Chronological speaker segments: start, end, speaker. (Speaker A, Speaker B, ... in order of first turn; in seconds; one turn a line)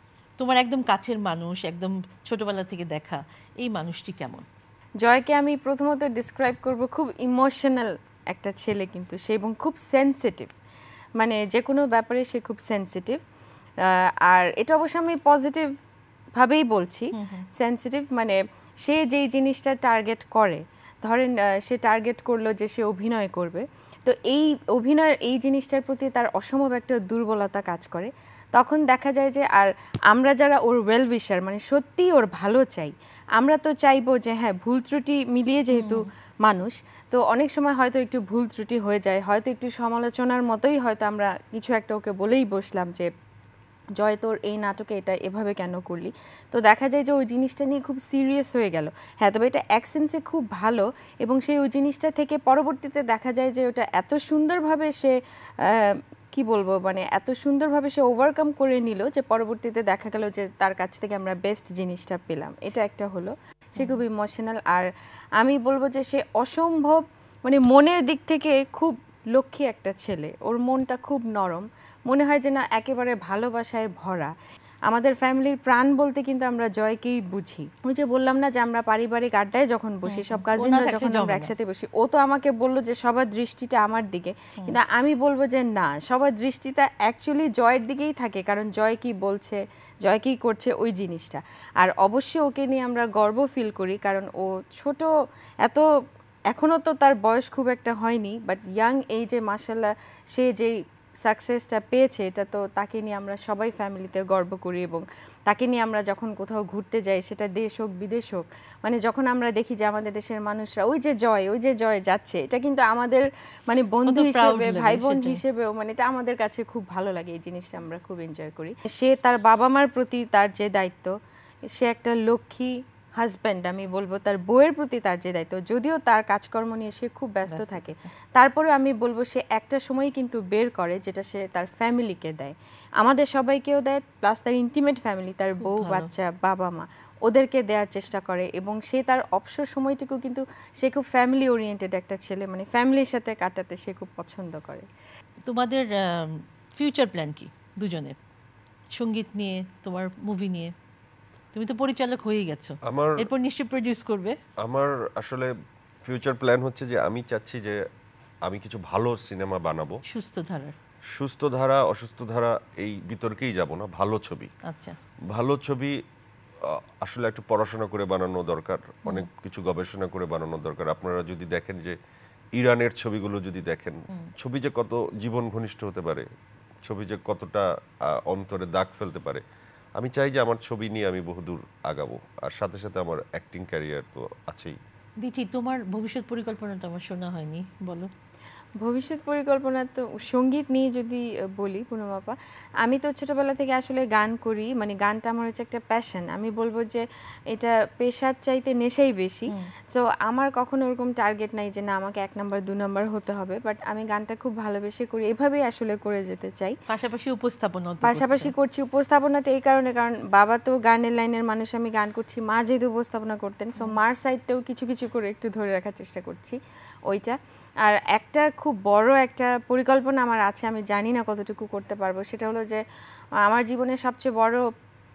Speaker A: 0.4-4.5
Speaker B: 5.0-10.5
Speaker B: 11.2-13.2
Speaker B: 13.9-15.7
Speaker B: 16.4-43.1
Speaker A: 17.1-17.5
Speaker A: 35.7-36.0
Speaker B: 44.0-64.9
Speaker B: 65.4-74.3
Speaker B: 74.9-95.1
Speaker A: 80.0-81.5
Speaker B: 96.5-121.1
Speaker A: 114.0-115.4
Speaker B: 121.8-144.8
Speaker A: 127.5-128.0
Speaker A: 135.6-136.1
Speaker A: 145.5-148.2
Speaker A: 148.9-150.7
Speaker A: 151.5-154.3
Speaker C: 152.8-153.3
Speaker C: 154.6-155.5
Speaker C: 156.1-157.8
Speaker C: 158.4-160.0
Speaker A: 160.1-160.8
Speaker C: 161.1-164.5
Speaker A: 164.7-165.0
Speaker C: 165.3-166.0
Speaker C: 166.6-172.0
Speaker C: 172.6-176.3
Speaker C: 176.9-179.4
Speaker C: 180.0-184.8
Speaker A: 185.2-188.1
Speaker B: 188.8-206.7
Speaker A: 206.9-208.5
Speaker B: 208.0-222.8
Speaker B: 223.4-224.6